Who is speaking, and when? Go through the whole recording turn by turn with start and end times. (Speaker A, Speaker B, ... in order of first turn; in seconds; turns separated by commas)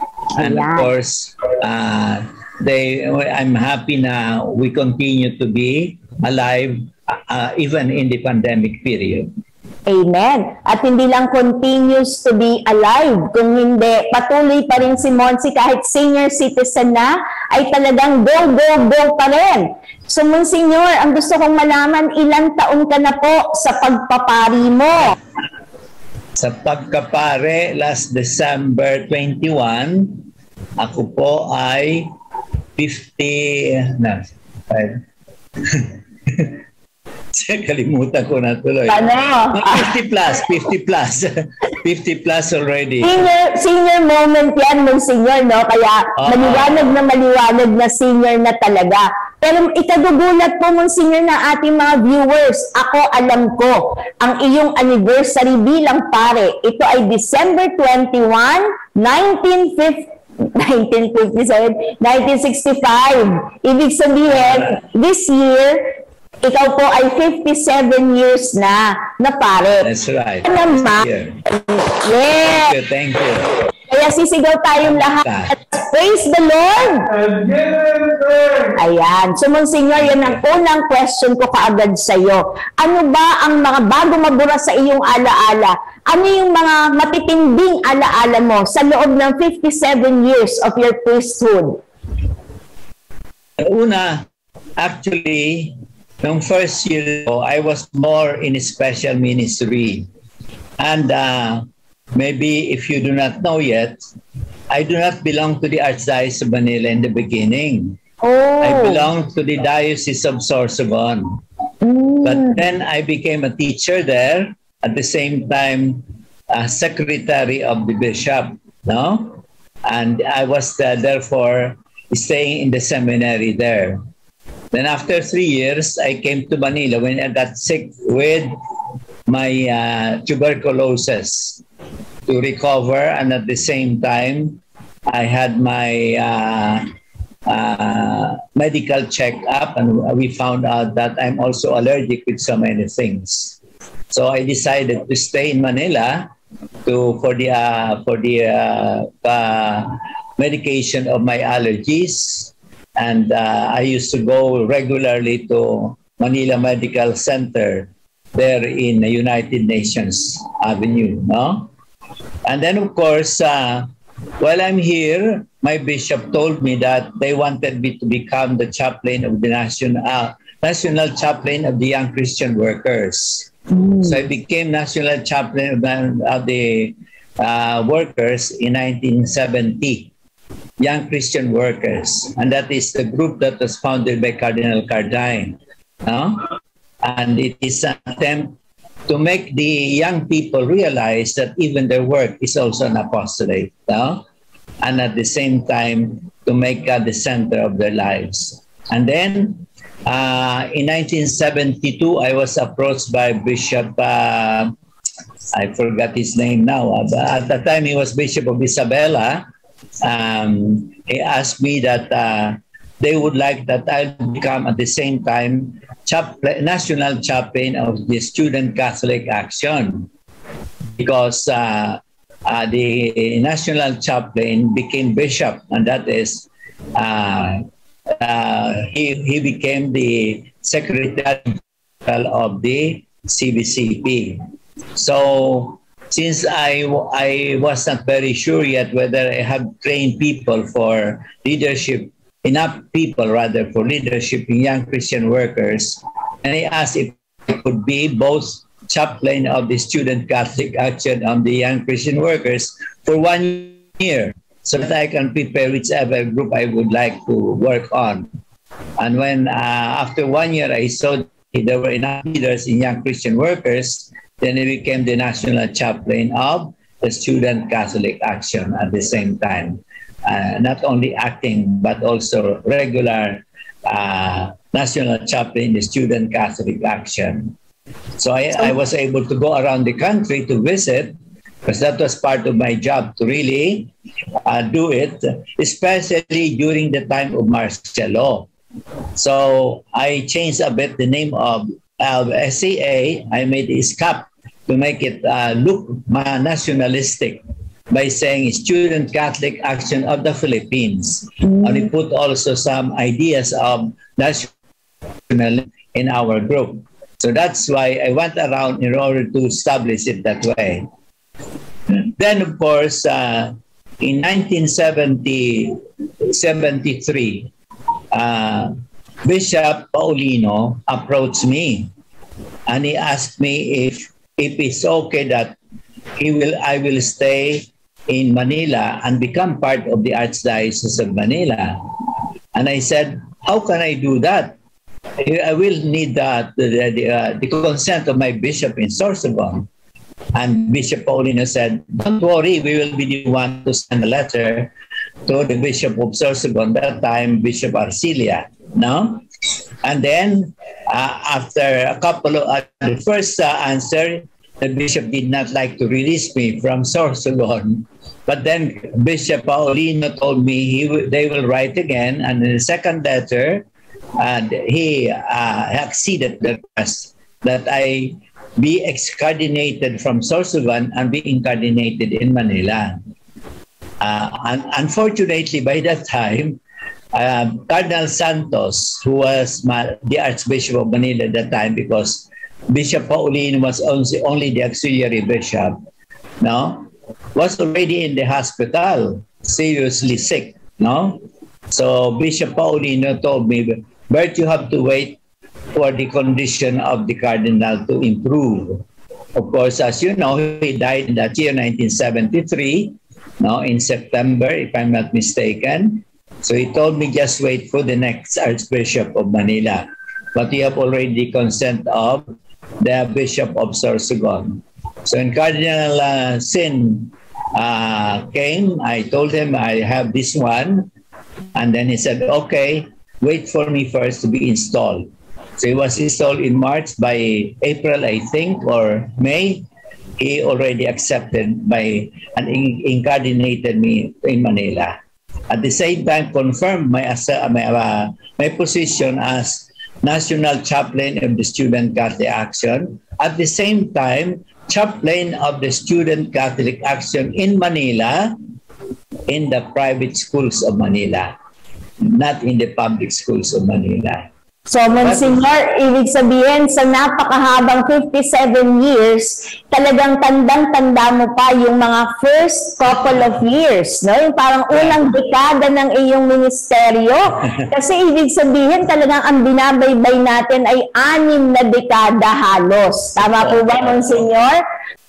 Speaker A: 0.4-0.9, Speaker B: 0.4-9.3, Speaker A: 9.9-25.2, Speaker B: 26.4-30.3, Speaker B: 30.8-32.1, Speaker B: 32.8-35.0, Speaker B: 35.6-36.6, Speaker B: 37.3-43.2, Speaker A: 38.9-39.9, Speaker A: 43.0-65.9, Speaker B: 46.2-46.9, Speaker A: 66.4-69.9, Speaker B: 69.8-71.4, Speaker A: 70.5-72.8, Speaker B: 72.4-73.5, Speaker A: 73.9-77.2, Speaker B: 74.8-75.5, Speaker A: 78.7-91.8, Speaker B: 80.0-80.4, Speaker B: 93.6-94.2, Speaker B: 94.8-100.1, Speaker B: 100.8-104.0, Speaker B: 104.7-108.0, Speaker A: 108.2-109.1, Speaker B: 108.6-111.4, Speaker A: 111.8-112.6, Speaker B: 112.2-124.0, Speaker B: 124.7-128.6, Speaker B: 129.3-131.6, Speaker B: 132.3-136.8, Speaker B: 137.5-143.6, Speaker B: 144.1-146.3, Speaker B: 146.8-161.7, Speaker B: 162.4-163.9, Speaker B: 164.4-173.5, Speaker A: 173.7-174.2, Speaker B: 174.0-180.1, Speaker B: 180.8-186.5, Speaker B: 187.0-188.6, Speaker B: 189.1-194.2, Speaker B: 194.8-204.7, Speaker B: 205.5-209.4, Speaker B: 210.0-220.1, Speaker B: 221.0-227.7, Speaker B: 228.2-234.4, Speaker B: 235.0-258.3, Speaker B: 259.0-277.6, Speaker B: 278.2-281.1, Speaker B: 281.7-283.9, Speaker B: 284.5-288.5, Speaker B: 289.2-304.5, Speaker B: 305.3-310.9, Speaker B: 311.9-317.5, Speaker B: 318.1-318.7, Speaker B: 319.2-321.9, Speaker B: 322.7-325.6, Speaker B: 326.2-331.9, Speaker B: 332.5-334.6, Speaker B: 335.2-339.7, Speaker B: 340.4-344.7, Speaker B: 345.3-349.2, Speaker B: 349.8-363.7, Speaker B: 364.2-373.0, Speaker B: 374.0-376.6, Speaker B: 377.1-385.8, Speaker B: 386.4-395.2, Speaker B: 395.7-398.8, Speaker B: 399.4-412.2, Speaker B: 412.8-420.9, Speaker B: 421.6-429.7, Speaker B: 430.2-435.0, Speaker B: 435.5-448.4, Speaker B: 449.3-451.4, Speaker B: 452.0-454.3, Speaker A: 454.7-474.6, Speaker B: 455.0-455.4, Speaker B: 473.4-474.2